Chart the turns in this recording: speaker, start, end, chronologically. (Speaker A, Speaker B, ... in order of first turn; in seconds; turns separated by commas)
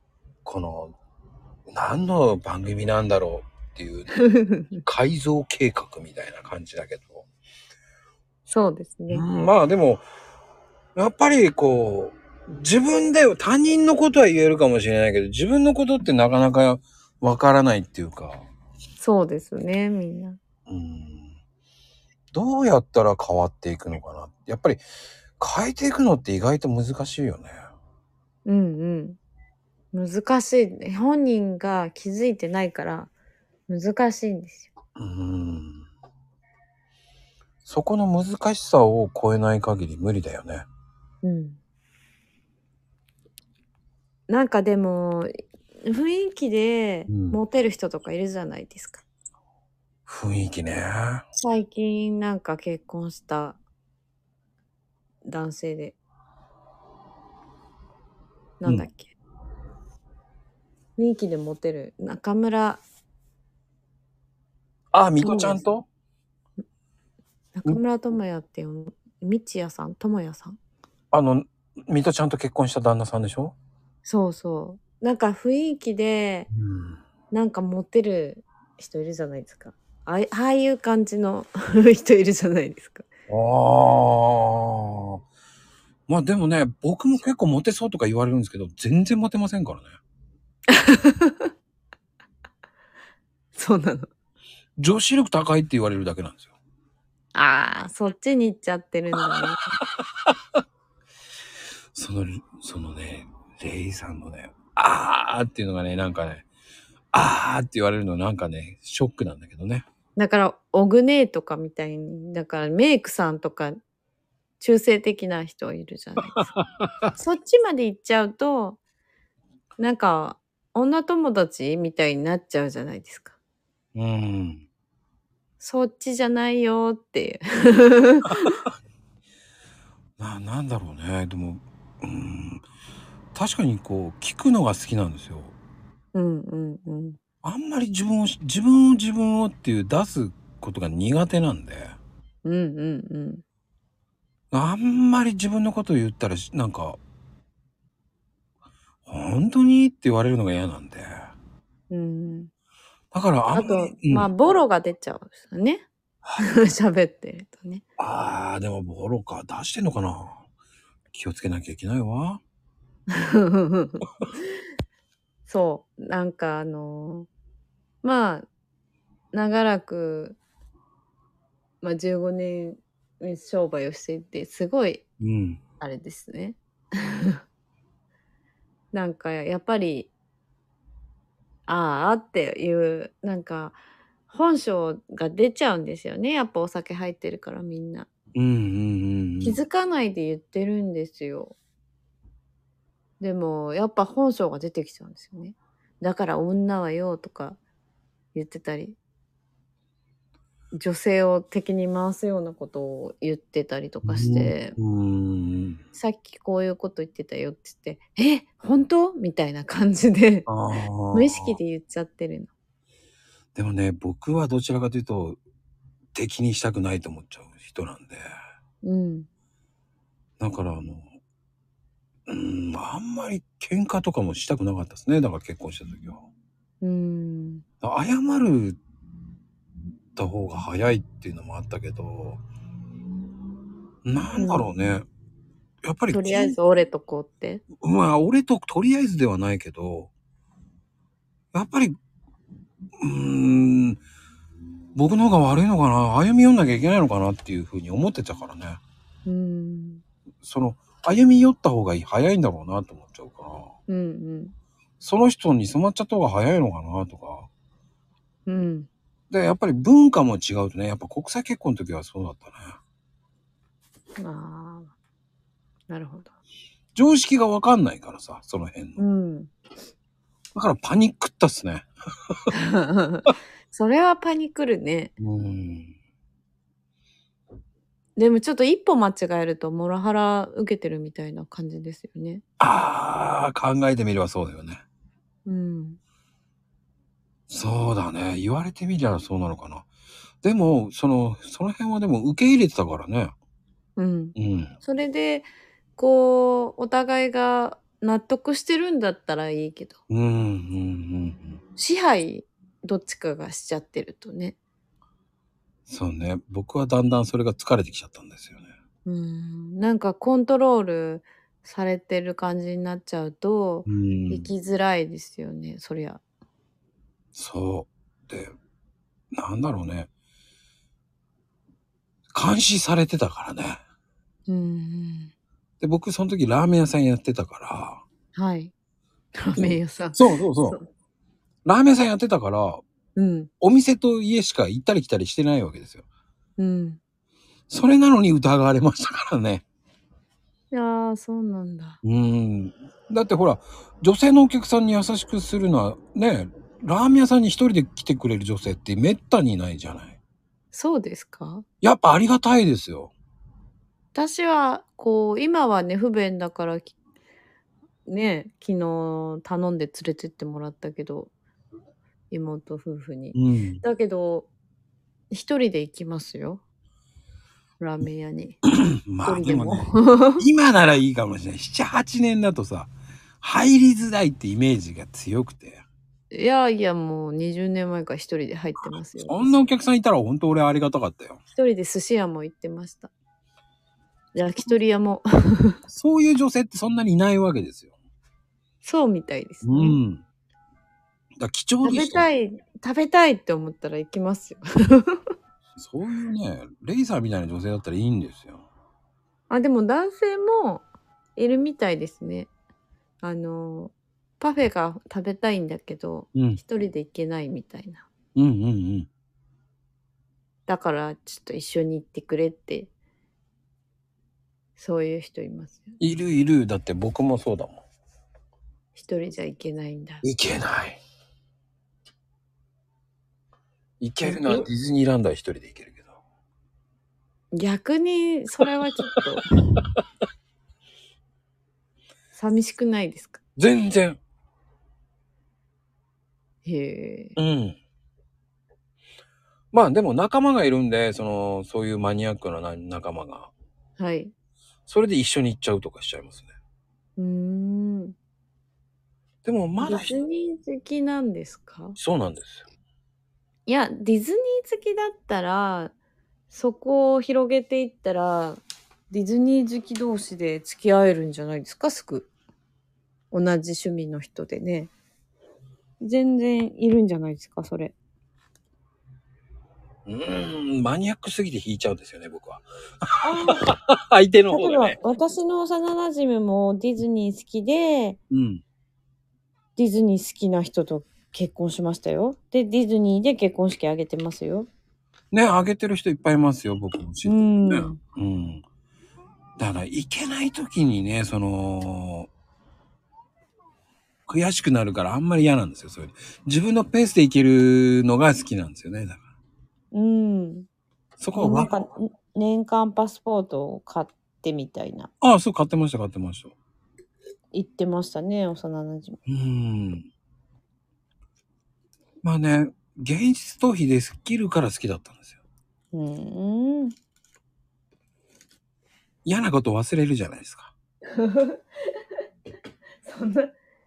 Speaker A: 0.4-0.9, Speaker A: 1.7-4.1, Speaker B: 4.2-4.8, Speaker A: 4.8-7.2, Speaker B: 8.5-9.2, Speaker A: 9.1-10.0, Speaker A: 10.9-18.4, Speaker B: 19.0-20.4, Speaker A: 20.7-21.3, Speaker A: 22.3-24.8, Speaker A: 25.4-27.6, Speaker B: 28.4-29.2, Speaker B: 29.9-33.1, Speaker B: 33.7-34.7, Speaker A: 35.0-35.9, Speaker A: 37.6-40.6, Speaker B: 41.2-41.6, Speaker B: 44.3-45.3, Speaker B: 45.8-49.0, Speaker A: 47.1-47.4, Speaker A: 50.0-51.2, Speaker B: 51.3-53.6, Speaker B: 55.2-56.0, Speaker B: 58.6-59.1, Speaker B: 61.0-62.8, Speaker A: 64.9-65.8, Speaker B: 65.2-65.6, Speaker B: 67.5-70.6, Speaker A: 71.1-73.5, Speaker B: 74.0-76.5, Speaker A: 76.5-77.0, Speaker B: 77.3-83.1, Speaker A: 83.3-85.2, Speaker A: 86.1-89.9, Speaker B: 90.7-91.5, Speaker B: 93.5-94.1, Speaker A: 94.8-96.5, Speaker B: 97.3-99.8, Speaker A: 101.9-106.5, Speaker A: 107.1-109.8, Speaker B: 110.2-113.8, Speaker B: 114.6-116.5, Speaker B: 117.1-118.8, Speaker B: 119.8-123.3, Speaker A: 123.9-124.6, Speaker B: 125.6-128.6, Speaker A: 130.2-132.6, Speaker A: 133.3-135.5, Speaker B: 136.1-137.2, Speaker A: 137.4-142.0, Speaker B: 142.4-143.4, Speaker A: 144.5-147.0, Speaker A: 149.1-151.3, Speaker B: 151.9-152.5, Speaker A: 153.1-154.3, Speaker B: 153.5-155.8, Speaker B: 156.4-157.8, Speaker A: 158.0-160.4, Speaker A: 161.1-162.4, Speaker B: 163.1-164.1, Speaker B: 165.4-167.3, Speaker B: 168.0-168.5, Speaker B: 169.3-170.4, Speaker B: 171.8-175.0, Speaker A: 175.2-175.6, Speaker B: 175.8-177.4, Speaker B: 178.9-180.1, Speaker B: 181.7-183.8, Speaker B: 184.3-188.1, Speaker A: 188.3-189.6, Speaker B: 189.4-191.5, Speaker B: 193.2-197.6, Speaker B: 198.3-199.0, Speaker B: 200.7-204.7, Speaker A: 204.0-205.8, Speaker B: 205.9-210.5, Speaker A: 210.5-211.6, Speaker B: 211.1-212.5, Speaker A: 213.5-215.4, Speaker A: 216.1-218.3, Speaker B: 218.8-219.3, Speaker A: 220.4-221.1, Speaker A: 222.3-226.2, Speaker B: 226.8-227.6, Speaker A: 227.8-228.8, Speaker A: 230.2-232.4, Speaker A: 234.0-235.0, Speaker B: 234.3-234.7, Speaker A: 235.8-236.6, Speaker B: 236.1-237.7, Speaker A: 237.8-240.1, Speaker A: 241.5-241.9, Speaker A: 243.0-244.0, Speaker A: 244.9-248.8, Speaker B: 249.2-250.0, Speaker A: 250.4-253.7, Speaker B: 253.9-254.5, Speaker A: 255.0-257.5, Speaker B: 258.4-258.9, Speaker A: 259.3-262.8, Speaker B: 264.2-264.9, Speaker B: 265.9-266.3, Speaker A: 266.9-269.0, Speaker B: 269.0-269.5, Speaker A: 270.5-272.3, Speaker B: 272.5-275.1, Speaker A: 275.2-275.9, Speaker B: 278.1-282.4, Speaker A: 282.6-284.8, Speaker B: 285.4-286.0, Speaker A: 287.5-289.9, Speaker A: 290.4-293.3, Speaker B: 294.0-300.0, Speaker A: 294.4-294.7, Speaker A: 300.1-301.6, Speaker B: 301.8-304.6, Speaker A: 305.9-308.7, Speaker B: 309.1-316.2, Speaker A: 313.9-314.5, Speaker A: 317.3-318.5, Speaker A: 319.3-320.1, Speaker A: 322.3-323.8, Speaker B: 324.5-325.3, Speaker A: 325.8-328.0, Speaker B: 328.3-328.7, Speaker B: 329.4-330.9, Speaker A: 329.6-330.8, Speaker A: 331.6-332.8, Speaker B: 333.1-333.5, Speaker A: 333.6-336.0, Speaker B: 336.6-337.0, Speaker A: 337.7-339.6, Speaker B: 340.7-342.0, Speaker A: 342.0-350.2, Speaker B: 350.7-351.6, Speaker A: 351.8-353.1, Speaker B: 354.1-356.9, Speaker B: 358.1-361.3, Speaker B: 362.3-364.5, Speaker A: 363.3-363.8, Speaker B: 365.3-366.6, Speaker B: 367.8-368.6, Speaker A: 369.1-369.9, Speaker B: 369.2-370.4, Speaker A: 370.4-375.8, Speaker B: 376.3-379.6, Speaker A: 379.2-381.4, Speaker B: 381.5-383.1, Speaker B: 384.3-385.8, Speaker A: 385.9-387.9, Speaker B: 388.8-390.0, Speaker A: 389.6-390.2, Speaker A: 391.4-392.3, Speaker B: 391.8-395.2, Speaker A: 395.8-398.6, Speaker B: 399.5-400.8, Speaker B: 401.4-402.5, Speaker B: 403.2-408.1, Speaker A: 406.3-406.6, Speaker A: 408.4-409.1, Speaker B: 410.7-412.9, Speaker B: 414.8-415.9, Speaker A: 416.0-417.8, Speaker B: 418.9-420.2, Speaker A: 420.2-421.0, Speaker A: 424.0-426.1, Speaker B: 424.2-424.7, Speaker B: 427.5-429.4, Speaker B: 432.3-433.4, Speaker A: 433.6-434.2, Speaker B: 436.6-437.4, Speaker A: 437.4-437.8, Speaker A: 439.7-443.5, Speaker B: 444.0-444.3, Speaker A: 444.9-446.5, Speaker B: 447.2-448.1, Speaker A: 449.4-450.1, Speaker B: 449.8-452.0, Speaker A: 452.0-452.6, Speaker B: 453.6-455.9, Speaker B: 456.5-462.3, Speaker B: 463.3-464.9, Speaker B: 466.0-467.9, Speaker A: 470.1-474.9, Speaker B: 473.2-473.7, Speaker B: 474.5-478.2, Speaker A: 478.3-478.6, Speaker B: 479.8-484.7, Speaker A: 485.3-488.6, Speaker B: 487.2-488.0, Speaker A: 489.6-492.3, Speaker A: 494.3-499.2, Speaker B: 499.9-500.7, Speaker A: 501.2-501.8, Speaker B: 501.3-505.1, Speaker A: 505.2-506.5, Speaker B: 507.5-509.2, Speaker A: 509.3-510.1, Speaker A: 512.2-515.4, Speaker B: 515.9-516.9, Speaker A: 519.2-520.7, Speaker B: 521.1-521.6, Speaker B: 523.0-523.5